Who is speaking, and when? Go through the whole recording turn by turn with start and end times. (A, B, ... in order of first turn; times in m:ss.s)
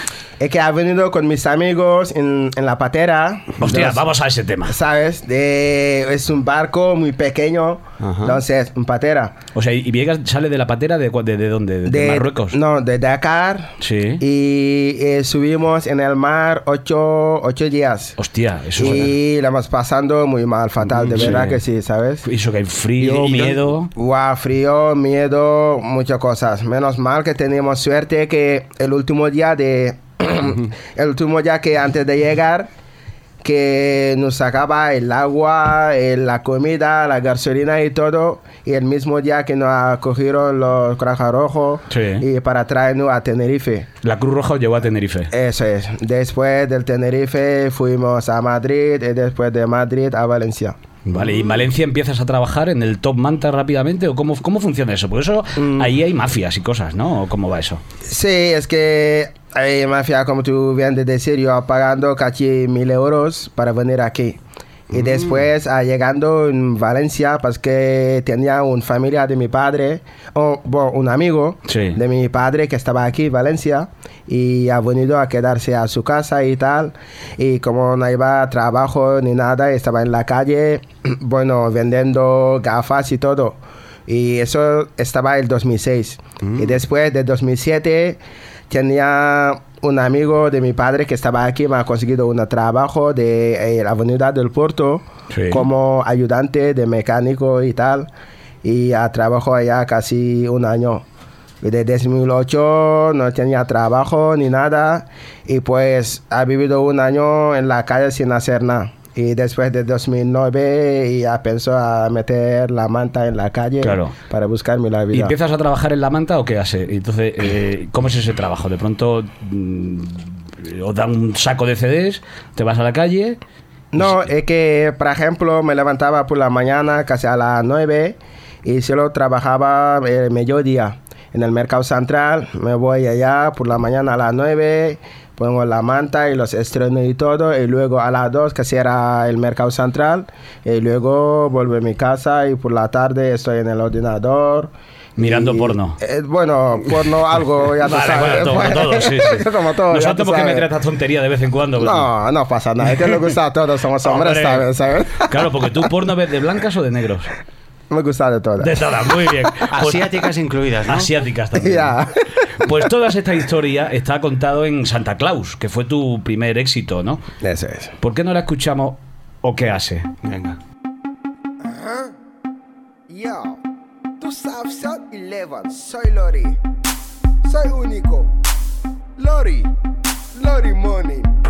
0:00.4-0:04.0 A
0:03.6-0:04.8 B
0:04.6-0:09.3 A
0:08.0-0:08.4 C
0:09.5-0:12.6 B
0:11.8-0:18.2 A
0:13.8-0:14.2 B
0:18.2-0:19.1 B
0:18.8-0:22.2 A
0:20.9-0:21.6 B
0:22.2-0:23.9 B
0:23.0-0:23.7 C
0:24.0-0:32.7 A
0:33.4-0:43.9 A
0:41.9-0:42.2 B
0:44.0-0:45.3 B
0:45.3-0:50.8 A
0:51.0-0:57.8 B
0:55.6-0:55.9 A
0:58.1-1:38.1 A
1:05.0-1:05.3 C
1:11.7-1:12.0 B
1:26.4-1:26.7 C
1:35.3-1:35.6 B
1:38.6-1:41.0 A
1:41.6-1:55.3 A
1:53.8-1:54.1 B
1:55.1-2:03.4 B
2:03.9-2:30.7 A
2:04.0-2:04.3 B
2:25.2-2:26.0 B
2:27.8-2:32.1 B
2:31.8-2:35.5 A
2:32.9-2:33.2 B
2:34.0-2:37.3 B
2:37.9-2:38.9 A
2:38.6-2:40.1 B
2:39.7-2:41.1 C
2:40.9-2:47.2 B
2:41.6-2:42.7 A
2:47.4-2:47.9 A
2:48.0-2:50.1 B
2:50.2-2:50.6 C
2:51.6-2:52.1 A
2:53.1-2:53.6 A
2:54.2-2:56.6 A
2:57.4-2:58.3 A
2:59.2-2:59.7 A
3:00.3-3:01.3 A